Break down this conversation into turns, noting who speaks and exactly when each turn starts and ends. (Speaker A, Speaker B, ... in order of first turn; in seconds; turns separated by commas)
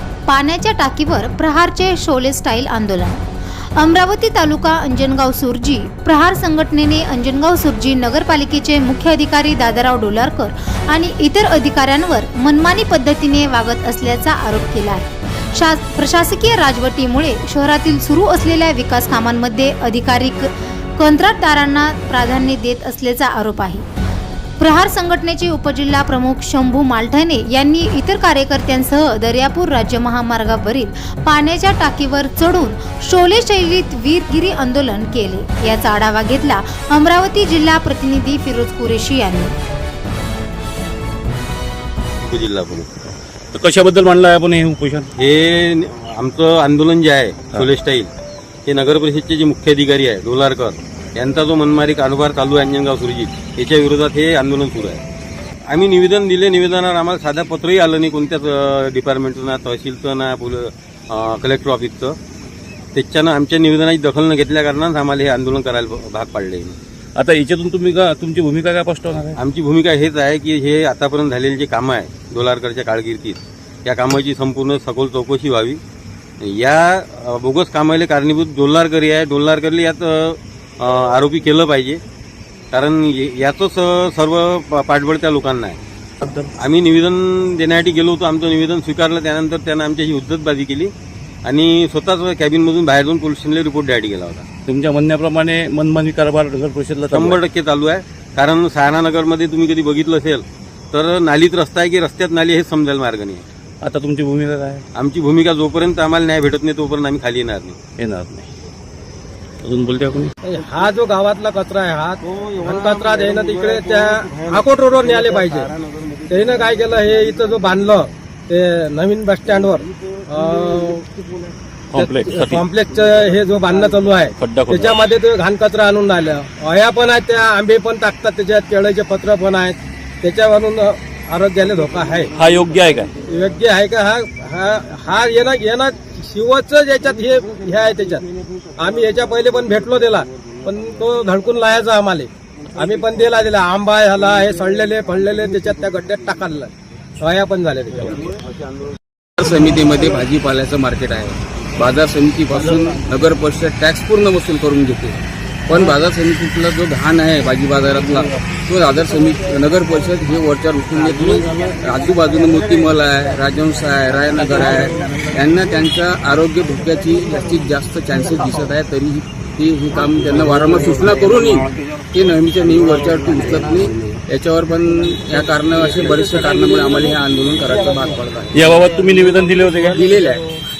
Speaker A: 0.3-3.2, Speaker A: 3.8-23.8, Speaker A: 24.6-39.5, Speaker B: 42.2-42.9, Speaker C: 43.5-45.1, Speaker B: 45.2-48.1, Speaker B: 48.6-55.0, Speaker B: 55.7-62.2, Speaker B: 62.9-66.8, Speaker C: 67.2-69.4, Speaker B: 69.3-75.8, Speaker B: 76.4-82.0, Speaker B: 82.7-85.8, Speaker C: 86.2-86.5, Speaker B: 86.6-90.9, Speaker B: 91.4-94.5, Speaker C: 94.7-97.4, Speaker B: 97.1-103.4, Speaker C: 103.8-104.8, Speaker B: 105.0-107.8, Speaker C: 108.0-108.5, Speaker C: 109.6-110.3, Speaker D: 110.4-115.7, Speaker D: 116.3-121.0, Speaker C: 121.9-122.7, Speaker D: 121.9-132.3, Speaker C: 124.4-125.1, Speaker C: 132.3-133.1, Speaker D: 133.3-138.2, Speaker D: 138.8-148.3, Speaker E: 149.4-178.9, Speaker C: 178.5-180.1, Speaker E: 179.9-180.4